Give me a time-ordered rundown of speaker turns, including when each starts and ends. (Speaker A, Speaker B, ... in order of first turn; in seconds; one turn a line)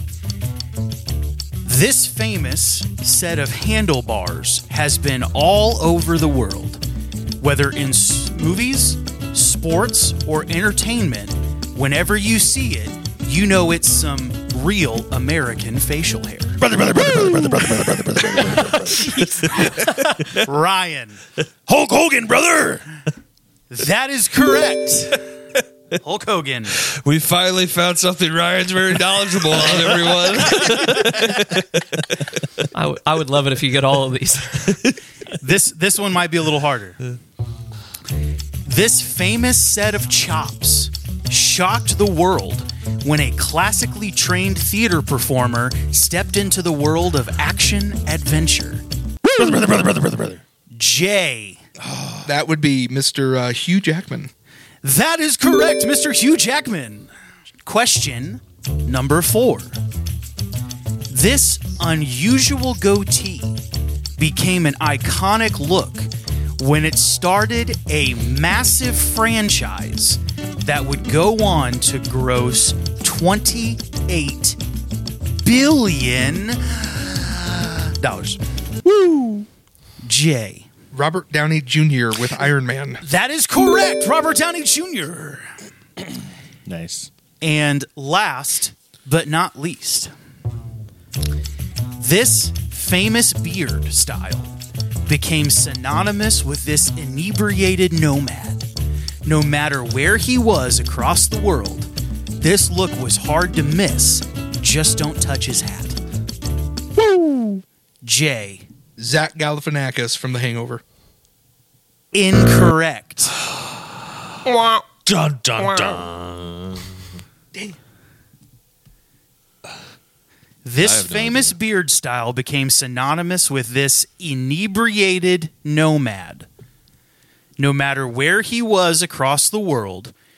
Speaker A: 1.6-6.8
Speaker A: 7.4-16.6
Speaker B: 16.6-19.6
Speaker A: 20.4-21.2
Speaker B: 21.7-22.8
Speaker A: 23.7-25.2
Speaker A: 26.0-26.8
Speaker C: 26.9-32.1
Speaker D: 32.7-34.8
Speaker A: 35.4-37.0
Speaker A: 38.6-48.8
Speaker B: 49.3-50.4
Speaker A: 50.7-51.6
Speaker B: 51.8-52.3
Speaker E: 52.2-54.3
Speaker A: 54.8-57.1
Speaker A: 57.6-59.8
Speaker A: 61.1-63.6
Speaker A: 64.2-74.6
Speaker A: 75.4-79.5
Speaker A: 80.0-80.7
Speaker E: 80.9-83.0
Speaker A: 83.0-85.5
Speaker B: 86.7-87.1
Speaker A: 87.4-90.1
Speaker A: 92.0-94.5
Speaker A: 95.1-98.6
Speaker A: 99.2-106.0
Speaker A: 108.0-108.6
Speaker E: 109.0-110.8
Speaker A: 112.1-113.4
Speaker D: 114.5-114.8
Speaker C: 115.1-117.0
Speaker B: 115.5-115.9
Speaker A: 120.6-126.5
Speaker C: 120.8-121.6
Speaker A: 127.6-130.1